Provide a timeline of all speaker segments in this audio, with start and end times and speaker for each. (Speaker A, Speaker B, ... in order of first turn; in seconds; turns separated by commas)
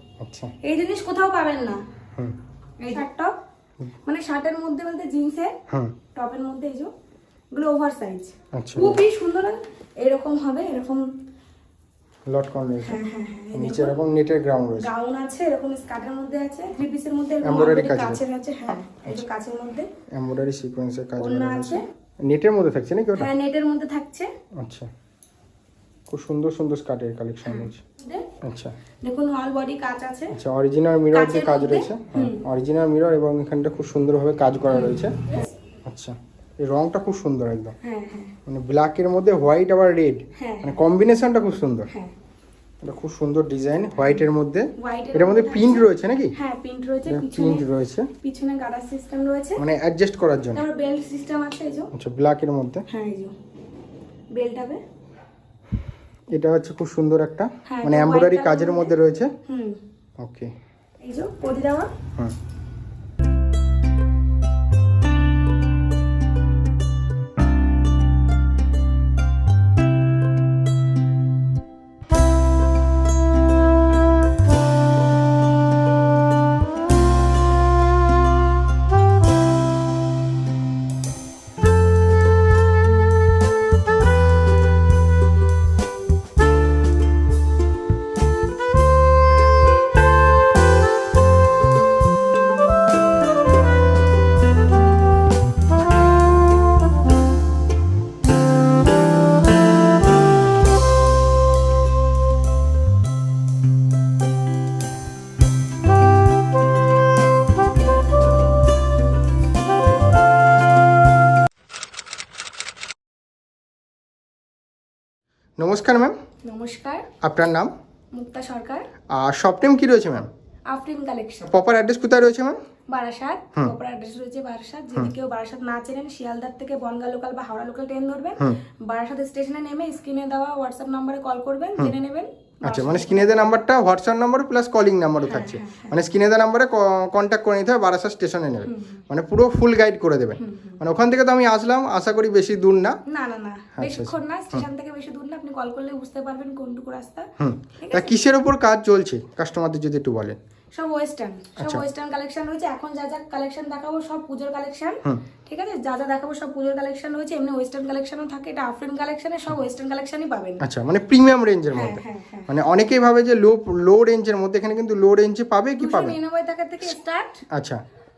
Speaker A: 0.2-0.5, Speaker B: 0.6-1.8, Speaker B: 2.8-3.3, Speaker B: 4.0-5.5, Speaker B: 6.1-6.9, Speaker B: 7.5-11.1, Speaker A: 8.5-9.0, Speaker A: 12.3-13.0, Speaker B: 12.8-14.0, Speaker A: 13.5-14.9, Speaker B: 14.8-19.9, Speaker A: 17.4-18.2, Speaker A: 20.1-23.3, Speaker B: 21.2-21.8, Speaker B: 23.1-24.3, Speaker A: 24.6-24.9, Speaker A: 26.1-27.8, Speaker B: 27.4-28.3, Speaker A: 28.4-28.7, Speaker B: 29.0-30.4, Speaker A: 30.3-35.2, Speaker B: 31.1-32.4, Speaker B: 34.7-35.5, Speaker A: 35.8-37.8, Speaker B: 37.8-38.3, Speaker A: 38.5-41.9, Speaker B: 40.4-40.8, Speaker B: 41.9-42.1, Speaker A: 42.8-46.3, Speaker B: 44.0-44.2, Speaker B: 44.8-47.6, Speaker A: 47.1-48.1, Speaker B: 48.2-49.6, Speaker A: 49.6-50.6, Speaker B: 50.5-51.9, Speaker A: 51.9-52.9, Speaker B: 52.9-53.3, Speaker B: 54.3-54.8, Speaker A: 56.3-59.3, Speaker B: 57.6-58.9, Speaker B: 59.4-59.8, Speaker A: 60.2-60.5, Speaker B: 61.0-61.9, Speaker A: 115.6-116.2, Speaker B: 116.4-117.1, Speaker A: 117.2-117.7, Speaker B: 118.1-118.9, Speaker A: 119.1-120.3, Speaker B: 120.7-121.5, Speaker A: 121.4-122.6, Speaker B: 122.9-133.6, Speaker A: 132.6-143.0, Speaker B: 135.2-135.9, Speaker B: 138.6-139.0, Speaker B: 140.4-140.8, Speaker B: 143.1-148.2, Speaker A: 143.8-144.7, Speaker A: 147.4-150.4, Speaker B: 150.7-160.6, Speaker A: 151.6-151.8, Speaker A: 160.6-166.2, Speaker B: 161.7-162.5, Speaker B: 165.8-167.4, Speaker A: 167.5-167.8